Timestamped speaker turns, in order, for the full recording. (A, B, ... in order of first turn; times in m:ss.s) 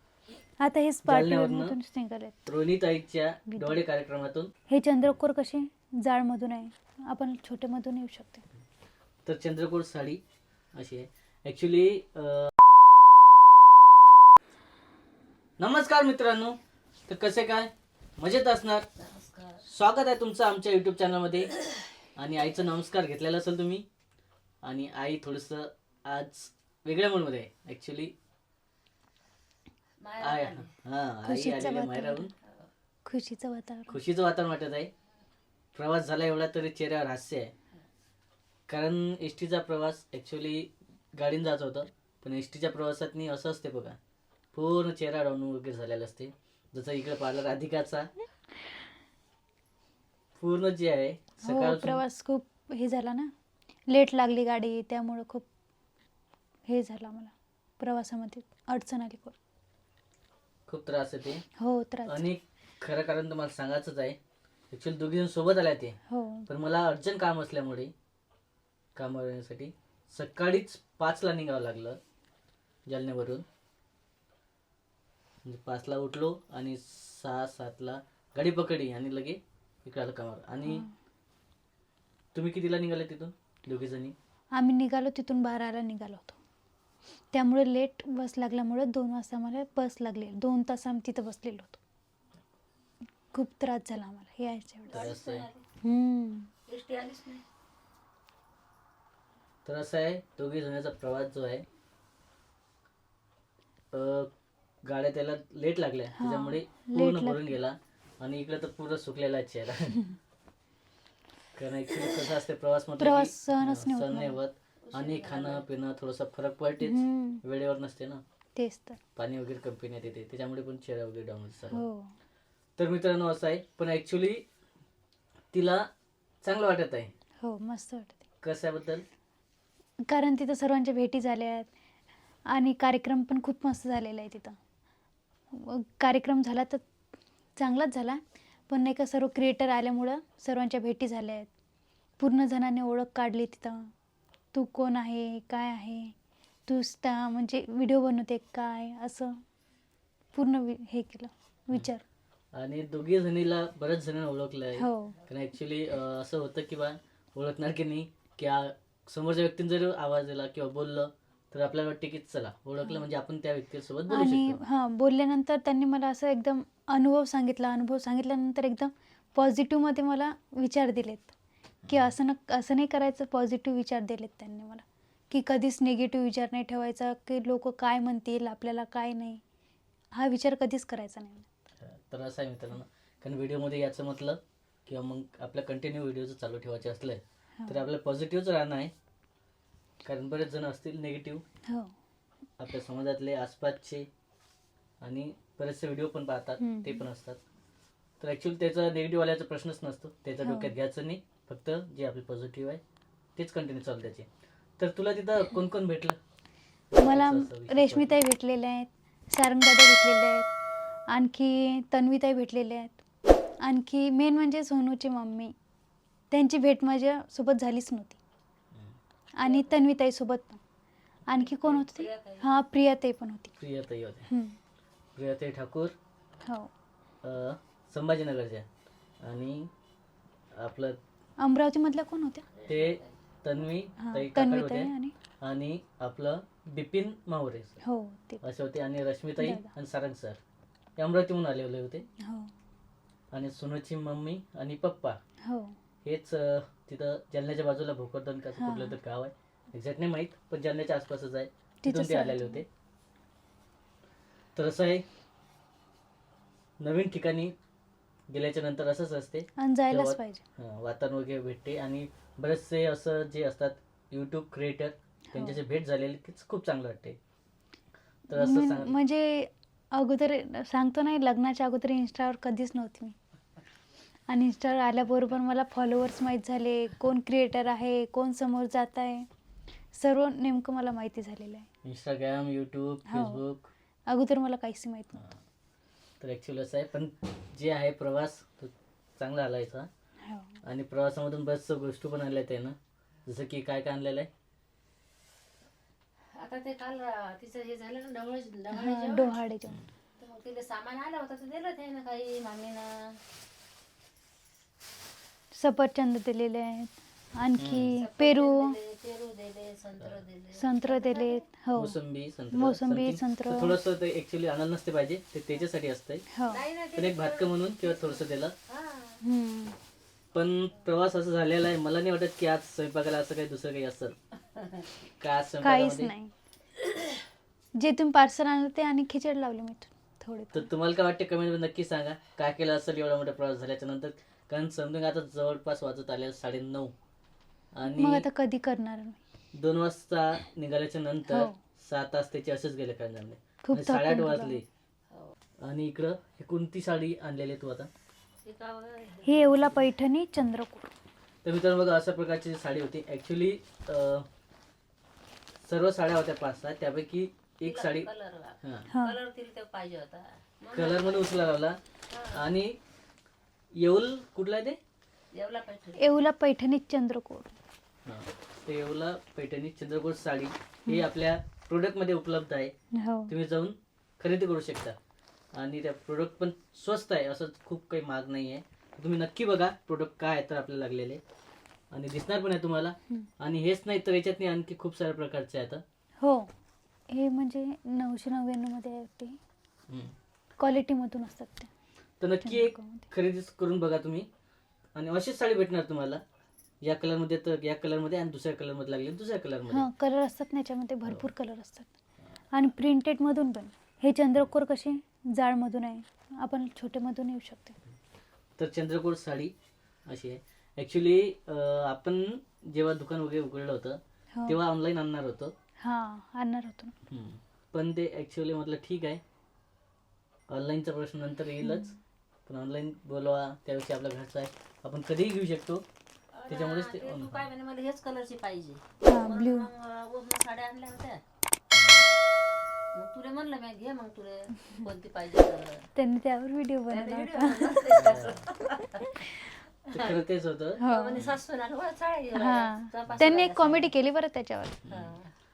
0:00.6-0:02.4 A
0:01.0-0:01.8 B
0:02.4-0:04.5 B
0:03.5-0:03.8 A
0:04.7-0:08.4 A
0:09.2-0:10.2 B
0:10.7-0:12.5 B
0:15.6-0:18.9 B
0:19.0-0:19.6 C
0:19.6-0:21.5 B
0:22.2-0:23.8 B
0:24.6-0:28.1 B
0:30.0-0:30.7 C
0:30.2-0:32.3 B
0:31.2-0:32.3 A
0:32.4-0:32.7 C
0:33.0-0:34.0 A
0:33.9-0:34.9 B
0:35.7-0:37.5 B
0:38.7-0:44.0 B
0:44.5-0:48.1 B
0:50.3-0:52.0 B
0:51.4-0:53.3 A
0:53.9-0:55.5 A
0:56.7-0:59.4 A
1:00.7-1:01.4 B
1:01.6-1:02.3 A
1:02.1-1:04.2 B
1:04.7-1:07.9 B
1:06.1-1:06.5 A
1:08.9-1:12.0 B
1:12.9-1:13.4 B
1:15.4-1:20.8 B
1:20.6-1:20.9 A
1:22.3-1:24.1 B
1:24.5-1:26.4 A
1:27.3-1:31.8 A
1:33.3-1:35.1 A
1:34.9-1:35.6 C
1:34.9-1:35.5 B
1:35.8-1:36.5 A
1:36.7-1:37.4 C
1:39.6-1:41.6 B
1:43.9-1:44.3 B
1:44.8-1:50.0 B
1:46.2-1:47.6 A
1:51.5-1:58.2 B
1:53.0-1:54.4 A
1:54.8-1:55.6 C
1:56.8-1:57.4 A
1:58.6-1:59.0 A
1:59.2-2:01.8 B
2:01.7-2:02.1 A
2:02.8-2:04.4 B
2:05.5-2:05.9 B
2:06.4-2:07.1 B
2:07.4-2:08.2 A
2:08.4-2:09.0 B
2:10.1-2:11.7 A
2:12.5-2:14.6 A
2:15.5-2:16.8 A
2:17.6-2:21.5 A
2:22.2-2:23.9 A
2:24.5-2:26.1 A
2:26.7-2:29.4 A
2:30.3-2:32.0 A
2:32.5-2:44.6 B
2:34.8-2:35.2 A
2:44.1-2:51.3 A
2:51.8-2:52.1 B
2:51.9-2:59.4 A
3:00.1-3:01.5 A
3:01.8-3:08.9 B
3:07.6-3:07.8 A
3:10.0-3:11.4 B
3:11.7-3:11.9 A
3:12.6-3:14.1 B
3:15.0-3:17.4 B
3:16.6-3:17.0 A
3:18.2-3:22.8 B
3:20.4-3:20.7 A
3:23.4-3:24.3 B
3:24.8-3:26.2 B
3:26.9-3:28.2 B
3:27.0-3:30.5 A
3:31.1-3:33.0 A
3:33.6-3:35.5 A
3:36.3-3:38.2 A
3:39.4-3:40.6 A
3:39.4-3:39.8 C
3:41.3-3:43.5 A
3:41.4-3:42.5 C
3:43.6-3:44.3 B
3:44.3-3:44.6 A
3:45.2-3:45.9 B
3:46.4-3:46.7 A
3:47.2-3:48.7 B
3:49.2-3:49.7 B
3:50.5-3:51.0 B
3:51.4-3:52.5 A
3:52.5-3:53.2 C
3:52.7-3:57.8 B
3:54.0-3:55.1 A
3:57.8-3:58.4 A
3:58.4-4:00.4 B
3:59.4-3:59.7 A
4:01.0-4:02.0 B
4:02.2-4:02.5 A
4:03.3-4:05.2 B
4:05.4-4:05.8 A
4:06.0-4:12.6 B
4:08.6-4:09.0 A
4:11.8-4:12.6 A
4:14.5-4:15.0 B
4:16.8-4:17.5 B
4:18.3-4:27.2 B
4:19.6-4:20.4 A
4:25.3-4:25.6 A
4:28.3-4:28.9 B
4:28.3-4:33.2 A
4:34.3-4:39.3 A
4:39.9-4:41.7 A
4:41.8-4:43.7 B
4:43.1-4:43.4 A
4:44.1-4:45.2 A
4:46.2-4:49.9 B
4:50.2-4:50.6 A
4:50.6-4:54.3 B
4:56.3-4:59.4 C
4:58.7-4:59.8 A
5:00.2-5:03.2 C
5:05.5-5:08.8 A
5:07.6-5:08.0 B
5:07.9-5:11.4 C
5:10.5-5:12.0 A
5:11.7-5:16.2 B
5:12.5-5:13.8 A
5:16.3-5:16.6 A
5:16.5-5:19.2 C
5:16.9-5:18.5 B
5:19.2-5:19.8 A
5:20.3-5:24.2 B
5:24.6-5:24.8 C
5:25.2-5:26.1 B
5:25.6-5:26.3 A
5:27.8-5:30.7 A
5:30.5-5:36.9 B
5:37.7-5:38.2 B
5:37.9-5:39.2 A
5:39.5-5:44.6 B
5:41.3-5:41.6 A
5:43.6-5:44.6 A
5:45.6-5:47.9 B
5:48.4-5:49.8 C
5:49.2-5:50.9 A
5:51.4-5:54.2 B
5:55.6-5:58.1 B
5:57.6-6:01.5 C
5:58.6-5:58.9 B
5:58.9-5:59.2 A
6:00.7-6:01.8 B
6:02.1-6:02.4 C
6:02.3-6:02.8 B
6:03.8-6:04.8 B
6:05.3-6:06.2 C
6:06.0-6:07.5 A
6:08.0-6:12.7 B
6:12.9-6:13.3 A
6:13.3-6:14.9 B
6:15.5-6:21.2 B
6:21.9-6:25.8 B
6:26.2-6:26.5 A
6:27.1-6:29.4 A
6:29.9-6:30.1 B
6:30.6-6:31.7 A
6:32.2-6:34.3 B
6:32.4-6:33.1 A
6:34.9-6:36.2 B
6:36.8-6:39.9 B
6:39.7-6:41.9 A
6:42.5-6:47.8 A
6:48.6-6:49.5 B
6:50.1-6:55.5 B
6:55.8-6:56.9 A
6:57.1-6:59.2 B
7:00.5-7:01.9 B
7:01.6-7:02.0 A
7:02.4-7:05.8 B
7:06.3-7:11.2 C
7:06.5-7:07.5 B
7:09.0-7:09.7 A
7:11.7-7:12.0 B
7:12.9-7:15.9 C
7:16.0-7:18.2 A
7:16.9-7:19.2 C
7:17.9-7:18.4 B
7:19.8-7:20.2 C
7:19.9-7:21.4 B
7:20.8-7:21.2 A
7:20.8-7:23.9 C
7:22.3-7:24.8 A
7:24.8-7:25.1 B
7:24.9-7:25.3 C